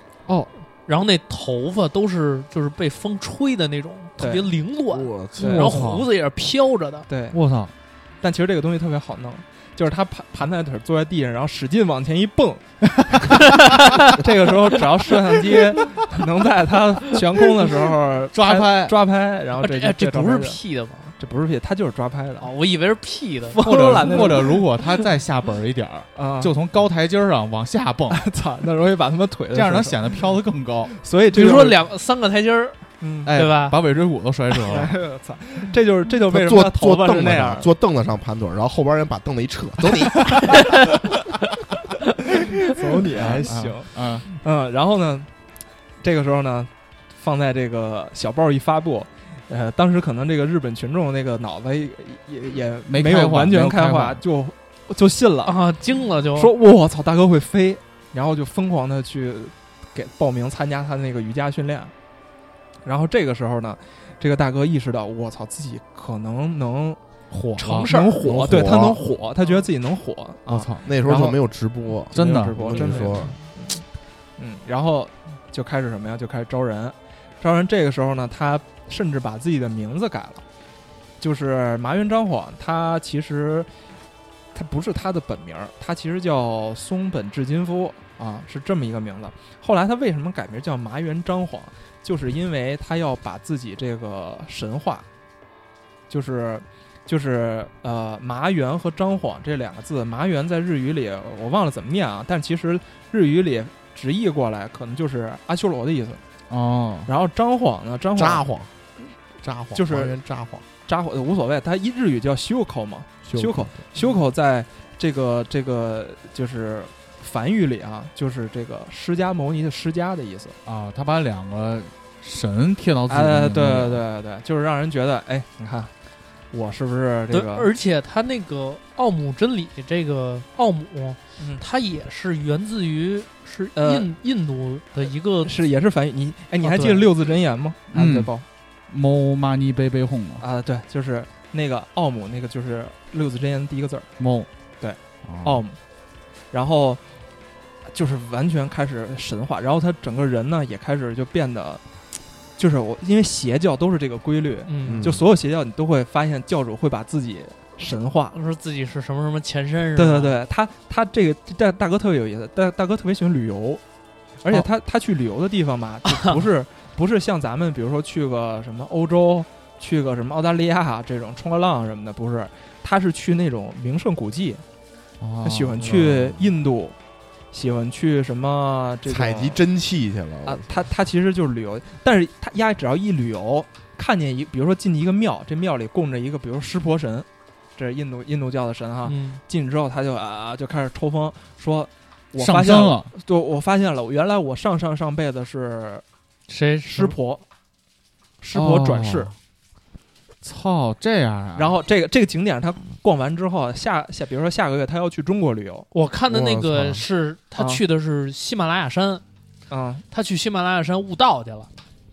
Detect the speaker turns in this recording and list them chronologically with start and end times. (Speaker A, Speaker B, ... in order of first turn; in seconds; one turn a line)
Speaker A: 0.3-0.5
Speaker B: 0.9-7.1
Speaker C: 4.2-4.5
Speaker D: 4.9-5.8
Speaker C: 5.4-5.7
Speaker A: 5.5-6.1
Speaker C: 7.1-7.4
Speaker A: 7.3-7.7
Speaker C: 8.2-13.5
Speaker B: 13.5-14.1
Speaker C: 14.1-20.6
Speaker A: 18.3-19.0
Speaker B: 19.6-21.2
Speaker C: 21.2-22.5
Speaker B: 22.4-24.3
Speaker C: 23.5-24.6
Speaker A: 23.6-28.3
Speaker C: 26.1-26.5
Speaker C: 28.1-30.0
Speaker A: 29.5-30.9
Speaker C: 31.0-31.8
Speaker B: 31.3-33.8
Speaker C: 33.0-33.3
Speaker A: 33.3-34.9
Speaker C: 34.6-37.7
Speaker D: 36.3-40.8
Speaker C: 42.7-45.3
Speaker A: 43.1-44.3
Speaker C: 46.0-55.6
Speaker A: 52.9-54.2
Speaker B: 55.5-56.5
Speaker C: 56.4-61.9
Speaker C: 62.8-67.0
Speaker A: 67.3-67.9
Speaker B: 67.6-68.5
Speaker C: 67.8-71.4
Speaker D: 68.2-69.0
Speaker A: 70.5-70.9
Speaker D: 70.8-73.3
Speaker A: 72.1-73.1
Speaker C: 72.1-73.8
Speaker C: 74.4-80.4
Speaker C: 81.2-83.7
Speaker C: 84.5-95.1
Speaker C: 96.1-106.2
Speaker A: 106.5-107.1
Speaker C: 107.1-108.5
Speaker D: 108.2-108.7
Speaker D: 109.4-110.7
Speaker C: 109.7-110.2
Speaker C: 110.9-120.6
Speaker D: 113.3-113.7
Speaker A: 120.7-124.0
Speaker C: 123.1-125.9
Speaker C: 126.5-127.7
Speaker B: 127.3-135.5
Speaker C: 131.4-131.6
Speaker C: 133.8-134.1
Speaker C: 135.4-138.4
Speaker B: 136.6-137.1
Speaker A: 137.9-138.3
Speaker A: 138.9-140.4
Speaker C: 140.4-144.1
Speaker A: 144.2-144.5
Speaker C: 144.8-145.8
Speaker A: 145.2-145.6
Speaker C: 146.5-147.0
Speaker C: 147.9-151.8
Speaker C: 152.6-158.4
Speaker B: 154.7-155.1
Speaker D: 154.8-155.2
Speaker B: 158.3-160.4
Speaker C: 159.9-163.8
Speaker C: 164.4-174.6
Speaker A: 175.2-176.0
Speaker C: 175.4-177.0
Speaker D: 175.8-176.4
Speaker C: 177.5-179.6
Speaker D: 179.1-180.8
Speaker C: 180.4-196.0
Speaker B: 189.1-189.4
Speaker A: 192.4-193.1
Speaker B: 196.5-197.2
Speaker C: 196.9-197.4
Speaker C: 198.4-199.3
Speaker A: 198.5-199.3
Speaker A: 200.4-201.7
Speaker C: 201.6-205.9
Speaker B: 205.9-209.2
Speaker D: 206.3-207.0
Speaker C: 207.6-207.8
Speaker C: 209.7-210.0
Speaker B: 210.1-211.7